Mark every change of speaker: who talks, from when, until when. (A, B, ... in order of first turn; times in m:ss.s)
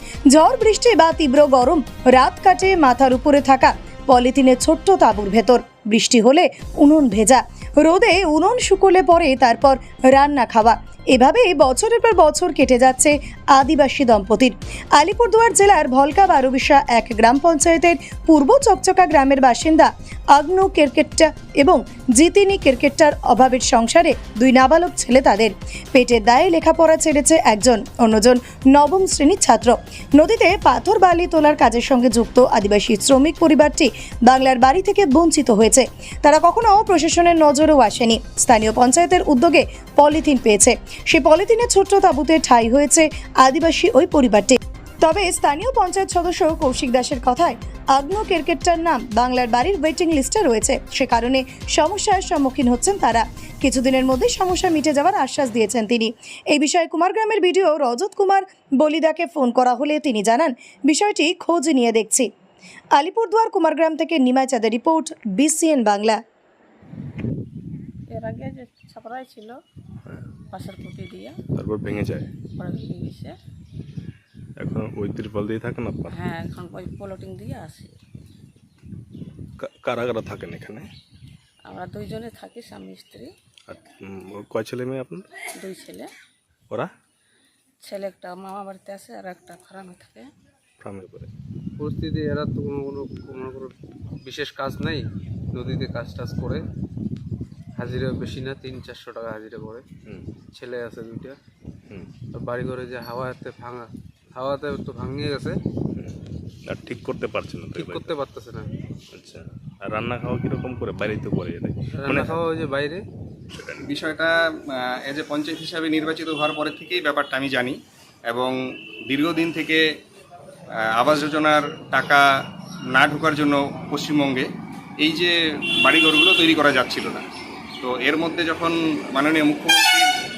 0:00.3-1:02.3 A
1:02.9-1:06.2 A
1:08.1-1:09.6 B
1:10.5-1:11.4 B
1:11.5-1:12.3 C
1:12.6-1:13.3 B
1:14.6-1:16.2 C
1:16.1-1:17.9 B
1:19.6-1:20.9 C
1:21.6-1:23.3 B
1:23.7-1:25.3 C
1:25.5-1:26.1 B
1:27.8-1:30.3 B
1:30.8-1:31.3 C
1:31.8-1:36.6 D
1:37.8-1:39.8 D
1:40.0-1:40.3 C
1:40.5-1:41.4 D
1:42.3-1:45.6 D
1:45.9-1:48.1 C
1:47.8-1:48.7 D
1:49.1-1:52.4 C
1:51.9-1:53.0 D
1:53.5-1:53.9 C
1:53.8-1:57.8 E
1:58.3-1:59.8 E
2:00.8-2:02.3 E
2:02.9-2:04.5 E
2:05.0-2:07.3 E
2:07.8-2:10.1 E